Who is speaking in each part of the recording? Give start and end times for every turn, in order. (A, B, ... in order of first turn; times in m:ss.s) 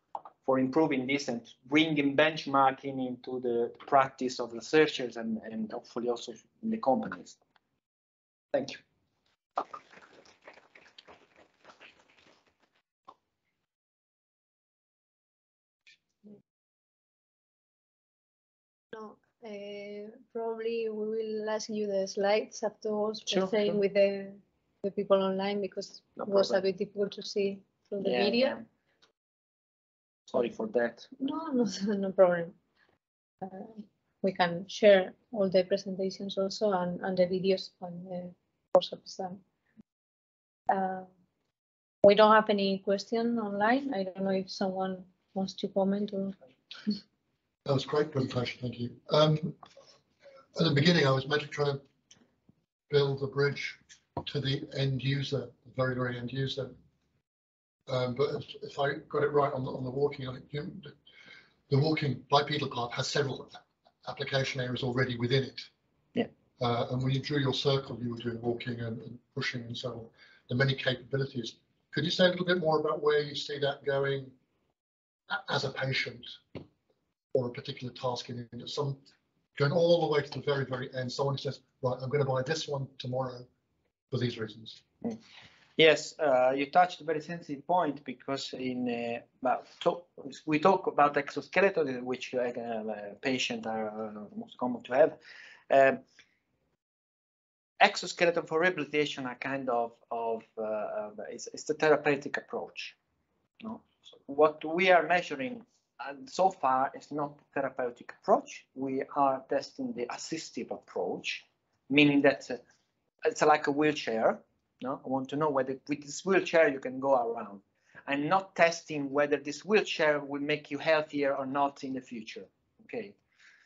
0:00.4-0:07.4 A
0:08.5-0:08.8 A
0:18.9-0:28.6 B
0:23.3-0:23.8 A
0:26.2-0:26.6 A
0:28.0-0:28.6 A
0:30.3-0:31.1 A
0:31.2-0:32.6 B
0:33.4-0:39.4 B
0:40.7-0:41.1 B
0:42.0-0:46.4 B
0:47.7-0:49.6 C
0:50.6-0:51.8 C
0:52.9-0:56.8 C
0:57.9-1:01.0 C
1:01.7-1:05.7 C
1:06.6-1:14.3 C
1:15.3-1:16.6 C
1:17.3-1:19.0 C
1:19.6-1:23.5 C
1:24.1-1:24.8 C
1:25.8-1:35.2 A
1:35.7-1:36.0 A
1:37.8-1:43.0 A
1:43.6-1:52.6 A
1:53.2-2:03.2 A